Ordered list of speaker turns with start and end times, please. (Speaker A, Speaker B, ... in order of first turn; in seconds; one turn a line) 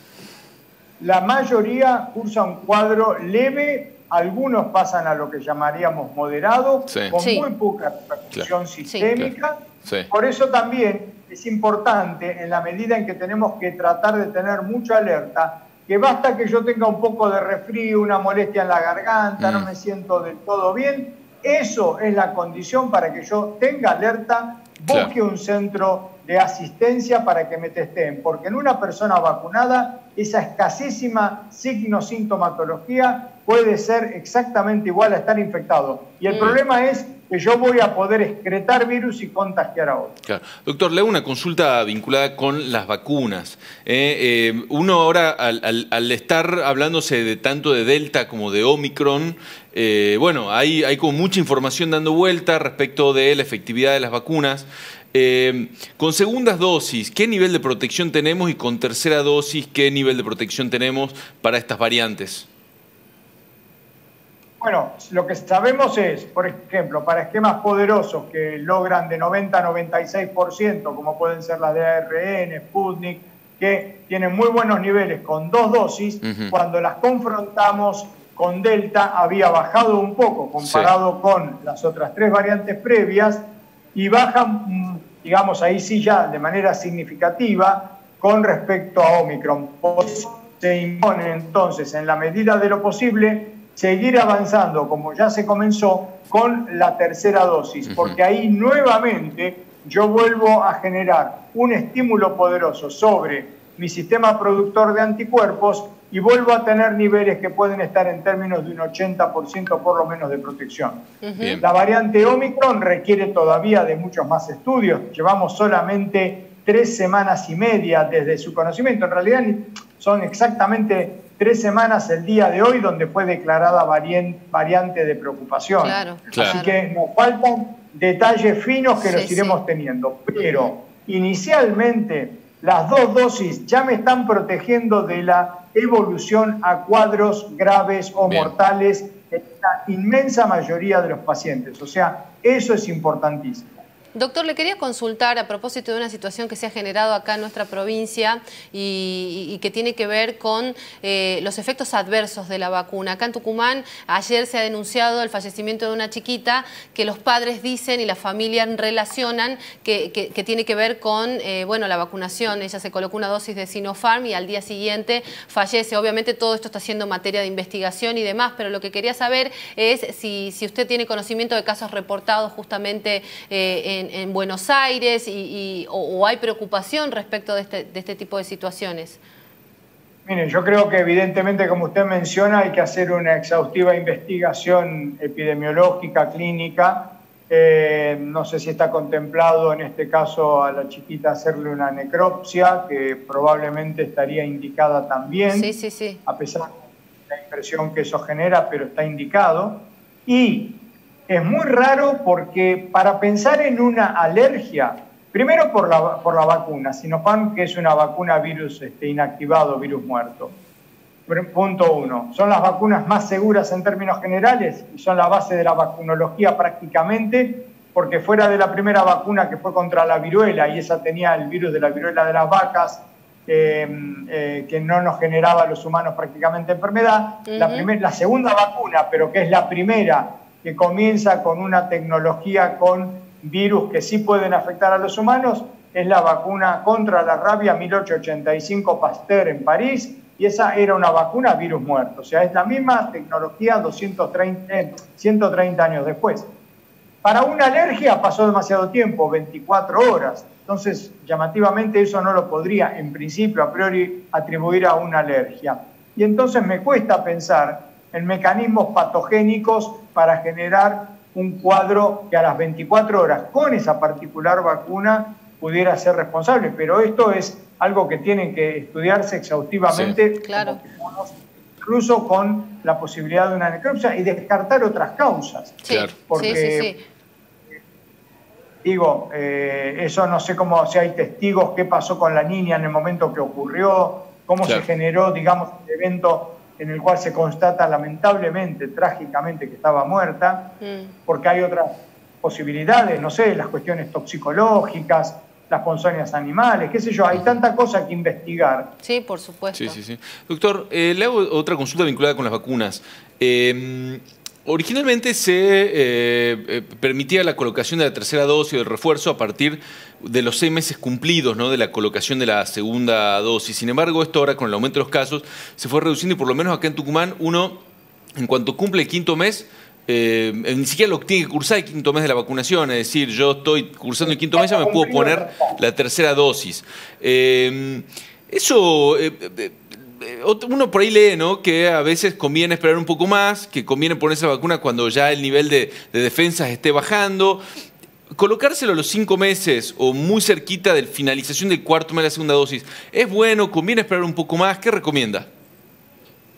Speaker A: 1.0-40.1
Speaker B: 7.2-7.5
Speaker B: 8.8-9.1
Speaker C: 19.4-19.7
Speaker C: 24.9-25.1
Speaker B: 36.3-36.5
Speaker C: 40.2-62.5
Speaker A: 64.6-111.0
Speaker C: 76.2-76.5
Speaker C: 80.6-80.9
Speaker C: 97.9-98.2
Speaker B: 111.2-111.6
Speaker C: 111.4-111.6
Speaker A: 111.6-143.8
Speaker B: 125.8-126.7
Speaker B: 129.0-129.6
Speaker C: 138.2-138.5
Speaker B: 144.1-179.2
Speaker A: 180.2-195.7
Speaker B: 195.5-196.2
Speaker A: 196.2-210.5
Speaker A: 211.3-246.5
Speaker B: 227.5-227.9
Speaker A: 247.2-276.9
Speaker C: 269.9-270.2
Speaker B: 270.4-270.8
Speaker B: 275.8-277.0
Speaker C: 275.9-276.6
Speaker A: 278.8-290.7
Speaker B: 290.8-291.1
Speaker A: 291.3-291.9
Speaker A: 292.4-298.9
Speaker B: 299.0-300.0
Speaker C: 299.7-317.8
Speaker C: 318.4-337.6
Speaker A: 324.2-325.8
Speaker C: 338.4-345.5